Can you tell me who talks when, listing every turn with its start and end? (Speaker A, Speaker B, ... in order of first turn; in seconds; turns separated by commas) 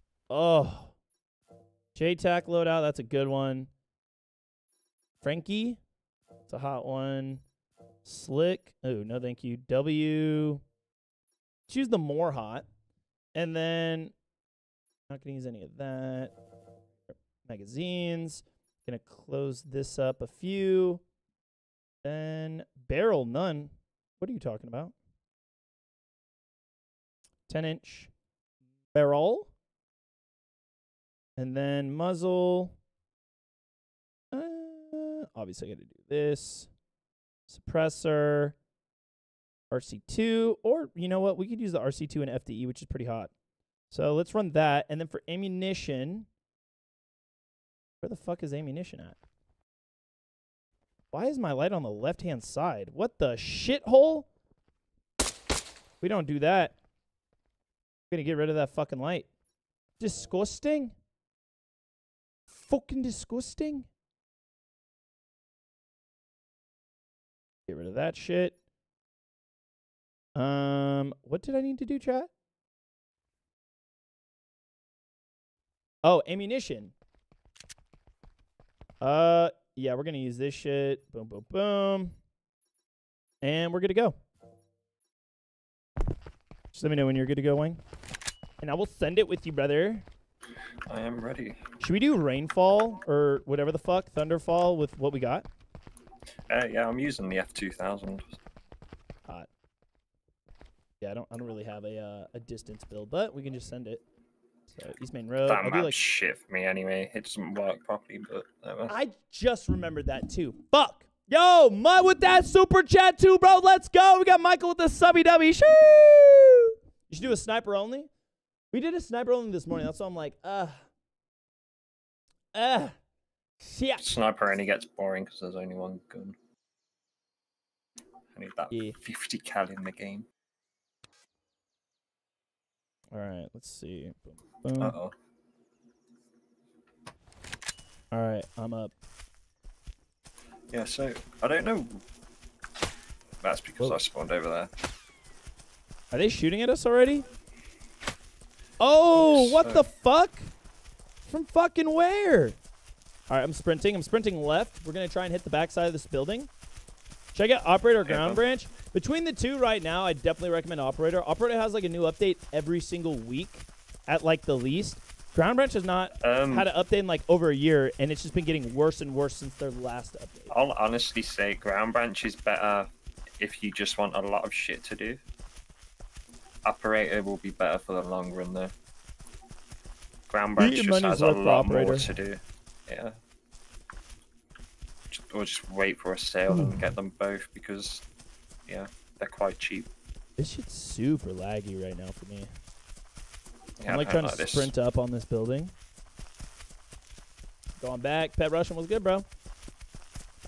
Speaker A: 0.3-0.9, Speaker A: 1.9-3.7, Speaker A: 5.2-5.8, Speaker A: 6.5-7.4, Speaker A: 8.1-10.6, Speaker A: 11.7-12.7, Speaker A: 13.3-14.1, Speaker A: 15.1-16.3, Speaker A: 17.4-21.0, Speaker A: 22.0-24.9, Speaker A: 27.5-28.1, Speaker A: 28.9-29.5, Speaker A: 31.4-32.8, Speaker A: 34.3-36.7, Speaker A: 37.5-38.5, Speaker A: 39.7-43.3, Speaker A: 43.9-46.3, Speaker A: 48.0-49.2, Speaker A: 51.1-54.3, Speaker A: 56.0-56.8, Speaker A: 58.1-59.3, Speaker A: 60.0-60.9, Speaker A: 62.5-63.9, Speaker A: 67.7-68.5, Speaker A: 70.4-72.3, Speaker A: 76.0-76.9, Speaker A: 79.0-82.2, Speaker A: 83.4-84.2, Speaker A: 86.7-87.8, Speaker A: 88.6-90.1, Speaker B: 90.8-91.6, Speaker A: 91.8-95.5, Speaker B: 96.5-98.3, Speaker A: 101.0-104.0, Speaker A: 104.7-106.0, Speaker B: 105.5-109.0, Speaker A: 108.9-118.1, Speaker A: 118.7-120.8, Speaker A: 122.5-123.0, Speaker A: 123.6-124.1, Speaker B: 124.0-126.4, Speaker B: 128.3-130.3, Speaker A: 128.7-129.0, Speaker A: 133.1-135.0, Speaker B: 134.8-135.1, Speaker A: 138.1-138.9, Speaker B: 140.7-142.0, Speaker B: 143.4-144.7, Speaker A: 146.1-147.2, Speaker A: 148.8-150.5, Speaker B: 149.1-149.9, Speaker A: 151.3-152.6, Speaker A: 153.3-156.5, Speaker A: 157.3-170.5, Speaker B: 158.0-158.4, Speaker B: 166.2-166.7, Speaker B: 170.5-175.2, Speaker B: 176.7-178.7, Speaker B: 180.3-183.2, Speaker A: 180.6-182.1, Speaker B: 185.1-188.1, Speaker A: 186.5-186.9, Speaker B: 188.7-189.9, Speaker A: 190.4-192.5, Speaker B: 193.8-194.7, Speaker A: 193.9-195.7, Speaker A: 197.8-199.3